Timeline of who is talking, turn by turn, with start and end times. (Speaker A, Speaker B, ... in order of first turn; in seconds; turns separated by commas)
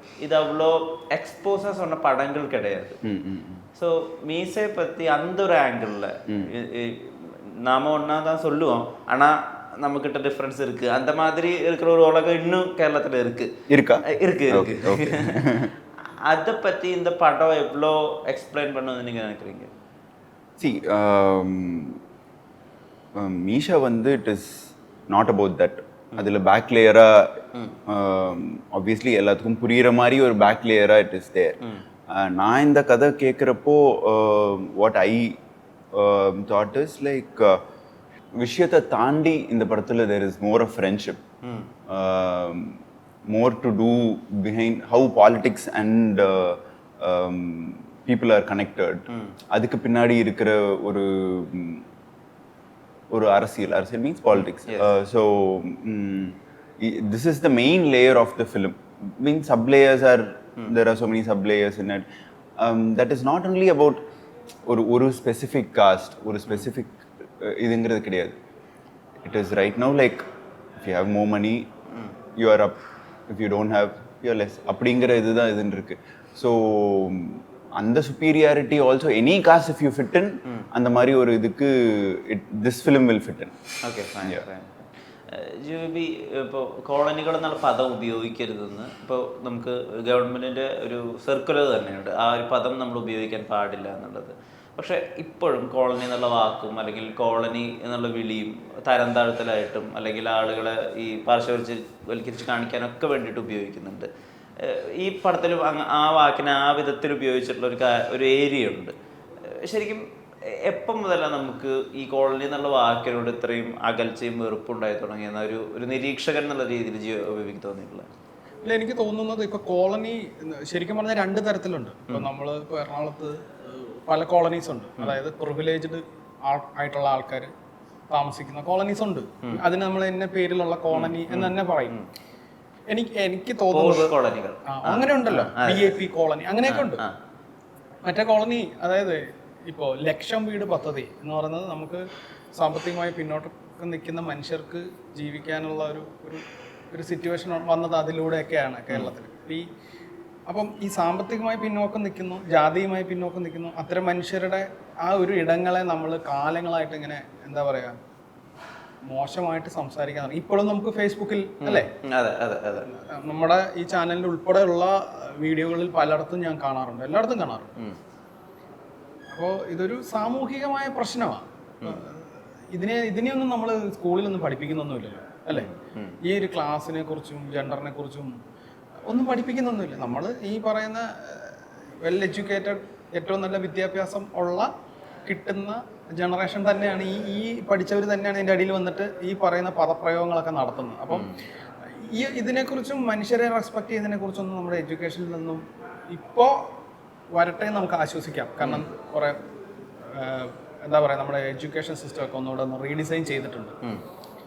Speaker A: 0.2-3.0, Speaker B: 3.0-3.6, Speaker A: 3.8-13.5, Speaker B: 13.7-15.7, Speaker A: 14.1-15.5, Speaker A: 16.3-19.7, Speaker B: 20.6-22.0, Speaker B: 23.1-31.6, Speaker B: 32.1-35.4, Speaker B: 35.9-37.6, Speaker B: 38.4-41.2, Speaker A: 41.4-41.7, Speaker B: 41.9-51.8, Speaker A: 49.1-49.4, Speaker B: 53.1-62.1, Speaker A: 54.3-54.9, Speaker B: 62.6-64.0, Speaker B: 64.7-68.4, Speaker B: 69.2-70.2, Speaker B: 70.8-71.7, Speaker B: 72.4-83.5, Speaker A: 83.8-108.9, Speaker A: 109.5-118.1, Speaker C: 118.6-127.5, Speaker C: 128.1-131.9, Speaker A: 130.9-132.1, Speaker C: 132.9-134.1, Speaker A: 133.7-135.9, Speaker C: 134.7-137.0, Speaker A: 136.7-137.2, Speaker C: 138.0-142.0, Speaker C: 142.6-149.7, Speaker C: 150.5-157.9, Speaker C: 159.1-161.9, Speaker A: 161.6-162.9, Speaker C: 162.9-167.8, Speaker C: 169.3-175.7, Speaker A: 175.5-176.2, Speaker C: 176.3-178.3, Speaker C: 179.1-184.7, Speaker C: 185.3-191.3, Speaker A: 191.1-191.4, Speaker C: 192.0-196.5, Speaker C: 197.3-199.4, Speaker C: 200.1-203.8